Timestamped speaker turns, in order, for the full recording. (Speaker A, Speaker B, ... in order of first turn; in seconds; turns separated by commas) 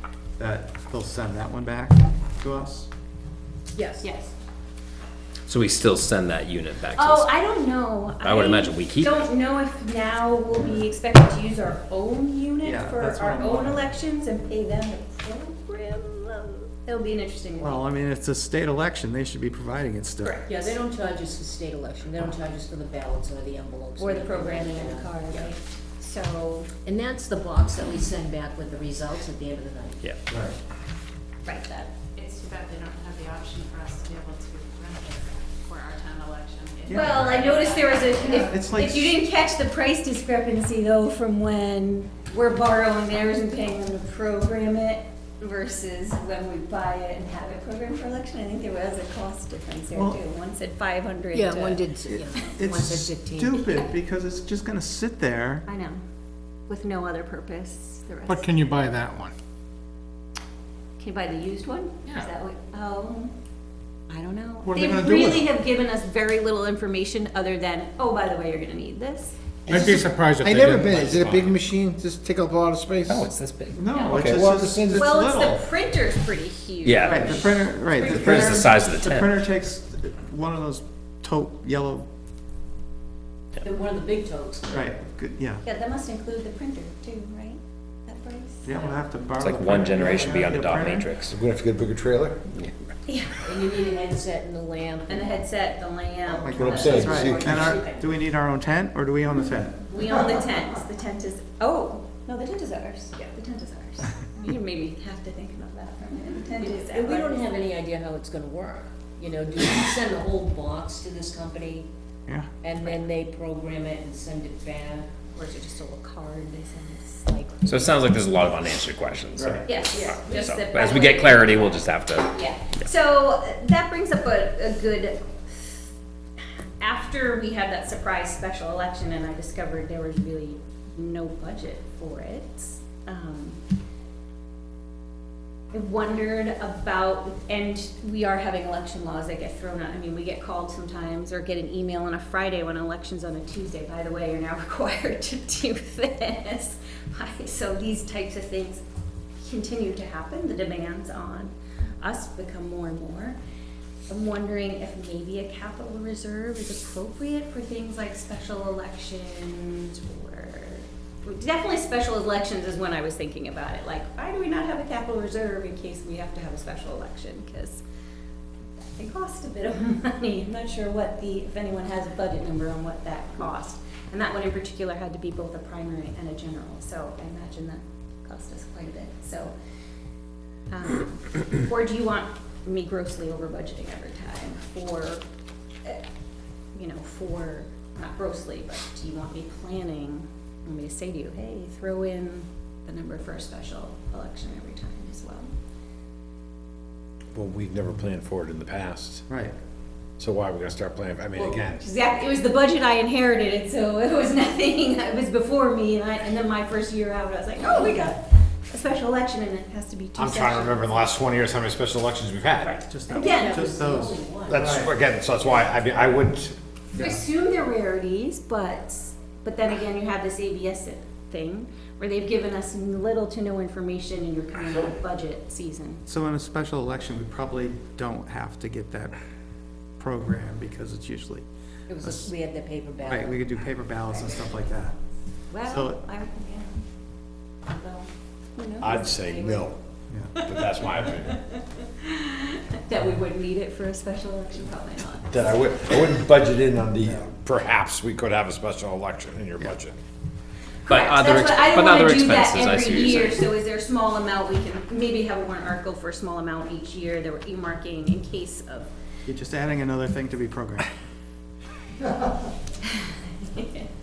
Speaker A: 0.4-2.9, Speaker B: 3.8-4.1, Speaker C: 4.0-4.3, Speaker D: 5.5-7.3, Speaker C: 7.0-17.8, Speaker D: 8.2-9.2, Speaker A: 12.6-13.9, Speaker A: 17.6-20.4, Speaker C: 20.2-20.8, Speaker B: 20.5-25.5, Speaker C: 24.0-26.7, Speaker B: 26.8-30.0, Speaker A: 30.3-30.6, Speaker C: 31.4-32.1, Speaker E: 32.1-38.5, Speaker A: 36.9-37.4, Speaker C: 36.9-51.8, Speaker A: 38.3-39.2, Speaker A: 50.0-50.2, Speaker B: 51.3-53.6, Speaker A: 52.1-55.7, Speaker C: 55.7-56.0, Speaker C: 56.7-58.6, Speaker F: 58.3-59.3, Speaker C: 61.0-63.3, Speaker C: 64.1-69.9, Speaker G: 69.7-73.3, Speaker F: 69.7-71.1, Speaker D: 71.2-71.5, Speaker D: 73.1-74.4, Speaker A: 73.7-75.7, Speaker G: 74.2-75.1, Speaker C: 74.9-78.7, Speaker D: 76.8-77.4, Speaker A: 77.1-82.1, Speaker D: 78.0-79.3, Speaker B: 83.6-84.8, Speaker A: 84.7-85.6, Speaker C: 85.6-89.0, Speaker A: 88.6-91.1, Speaker D: 89.4-91.4, Speaker G: 91.3-92.4, Speaker C: 93.1-93.5, Speaker B: 93.4-95.3, Speaker C: 95.1-97.8, Speaker A: 96.3-99.9, Speaker G: 96.6-97.5, Speaker B: 96.7-98.1, Speaker C: 99.9-107.5, Speaker B: 106.6-111.9, Speaker B: 112.6-115.1, Speaker C: 115.3-117.9, Speaker D: 117.7-122.3, Speaker A: 119.4-119.7, Speaker C: 119.7-121.8, Speaker C: 122.3-125.8, Speaker C: 126.8-133.6, Speaker C: 135.7-148.8, Speaker C: 149.4-153.4, Speaker C: 154.1-167.8, Speaker C: 168.8-179.5, Speaker C: 180.7-185.2, Speaker C: 186.8-195.5, Speaker G: 197.3-199.3, Speaker A: 199.3-199.6, Speaker G: 200.2-201.8, Speaker C: 201.4-211.0, Speaker G: 210.2-212.8, Speaker C: 212.7-213.7, Speaker A: 212.9-214.9, Speaker B: 213.1-214.8, Speaker G: 214.5-216.6, Speaker C: 217.0-226.0, Speaker A: 226.1-229.2, Speaker A: 230.0-231.4, Speaker B: 231.9-233.4, Speaker A: 232.0-232.3, Speaker A: 233.0-235.0, Speaker C: 235.5-236.8, Speaker A: 235.7-236.0, Speaker C: 237.7-239.7, Speaker G: 238.8-239.8, Speaker A: 240.1-240.3, Speaker G: 240.4-241.4, Speaker C: 240.5-245.5, Speaker G: 245.3-249.9, Speaker C: 250.9-258.9, Speaker D: 250.9-253.5, Speaker A: 259.3-260.9, Speaker C: 263.4-263.9